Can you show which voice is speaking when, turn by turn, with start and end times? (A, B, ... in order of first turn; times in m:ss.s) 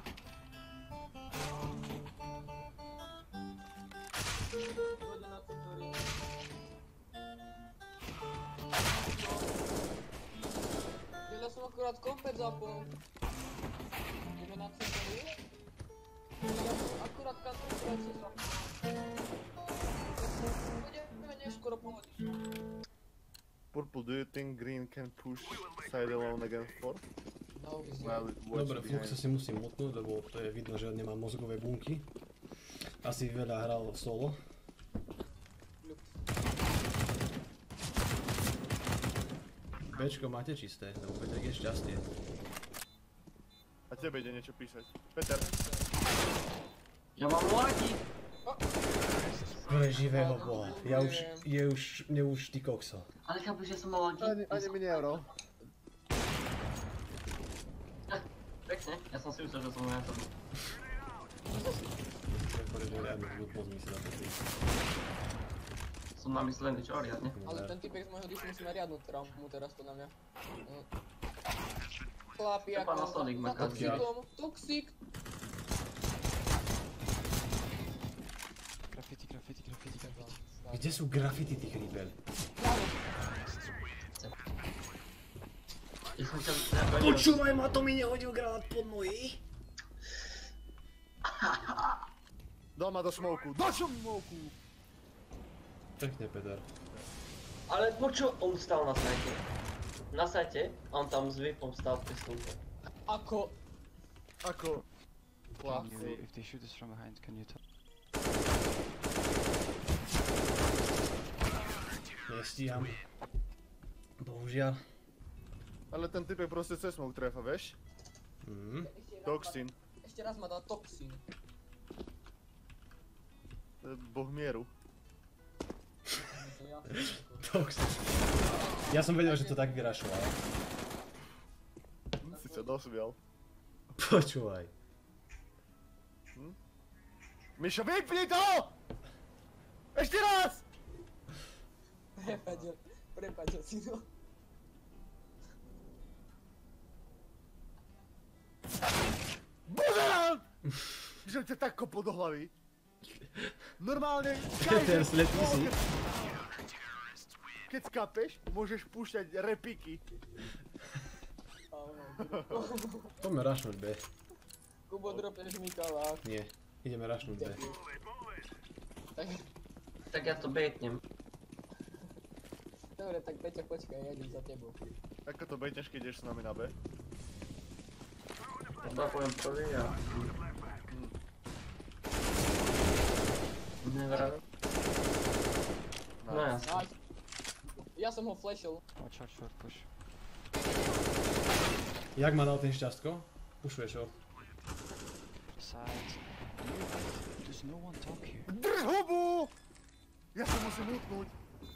0:05.0-0:06.1 A
0:09.0-0:09.5 A
0:11.3-0:13.0 A
0:14.4-0:15.4 A
0:16.4-0:18.6 A
0:20.4-0:22.3 A
0:23.7-0:27.0 B
0:27.5-0:28.3 A
0:28.0-0:29.2 B
0:28.5-0:32.1 C
0:33.0-0:34.4 C
0:35.8-0:36.2 A
0:39.9-0:42.1 C
0:43.9-0:45.5 B
0:45.3-0:45.9 A
0:47.2-0:48.0 D
0:49.2-0:50.6 D
0:49.7-0:53.1 C
0:50.0-0:51.5 A
0:53.2-0:55.2 D
0:54.2-0:55.3 B
0:58.1-1:00.3 D
1:02.3-1:04.5 C
1:06.2-1:07.3 D
1:07.3-1:07.8 C
1:07.4-1:10.1 A
1:12.3-1:14.9 A
1:12.7-1:14.1 D
1:13.5-1:14.1 C
1:18.9-1:20.4 E
1:20.0-1:21.0 A
1:20.7-1:22.2 C
1:22.6-1:23.0 A
1:26.2-1:27.6 D
1:27.0-1:29.4 C
1:31.4-1:32.0 D
1:32.8-1:34.5 B
1:36.0-1:36.7 C
1:37.7-1:39.5 D
1:40.1-1:42.6 D
1:43.1-1:43.6 A
1:44.4-1:44.8 B
1:45.6-1:46.2 B
1:45.6-1:47.6 E
1:52.3-1:53.0 C
1:54.2-1:54.8 C
1:55.9-1:57.8 B
1:58.4-1:58.9 C
1:58.8-2:01.2 A
1:59.2-1:59.7 B
2:03.8-2:04.7 B
2:06.2-2:07.6 A
2:07.0-2:08.2 C
2:08.4-2:10.0 A
2:08.8-2:10.4 C
2:12.2-2:13.2 B
2:12.2-2:12.8 A
2:14.0-2:14.7 C
2:17.6-2:18.8 B
2:19.9-2:20.6 B
2:22.2-2:24.1 A
2:29.7-2:30.4 B
2:31.2-2:32.5 B
2:33.2-2:33.5 C
2:33.8-2:36.0 B
2:34.6-2:35.7 C
2:37.7-2:40.0 B
2:41.7-2:43.1 A
2:42.2-2:42.7 B
2:43.2-2:44.0 C
2:44.9-2:46.2 A
2:46.2-2:47.6 C
2:47.2-2:47.8 A
2:49.1-2:49.4 A
2:50.1-2:51.0 D
2:52.9-2:54.8 A
2:55.2-2:56.7 B
2:58.8-3:00.4 D
3:00.9-3:01.2 B
3:03.8-3:04.4 D
3:06.2-3:06.5 B
3:06.3-3:06.9 D
3:06.6-3:06.9 A
3:07.7-3:08.8 A
3:09.0-3:09.9 E
3:12.2-3:14.2 C
3:15.6-3:18.5 E
3:18.5-3:19.5 B
3:20.3-3:21.4 B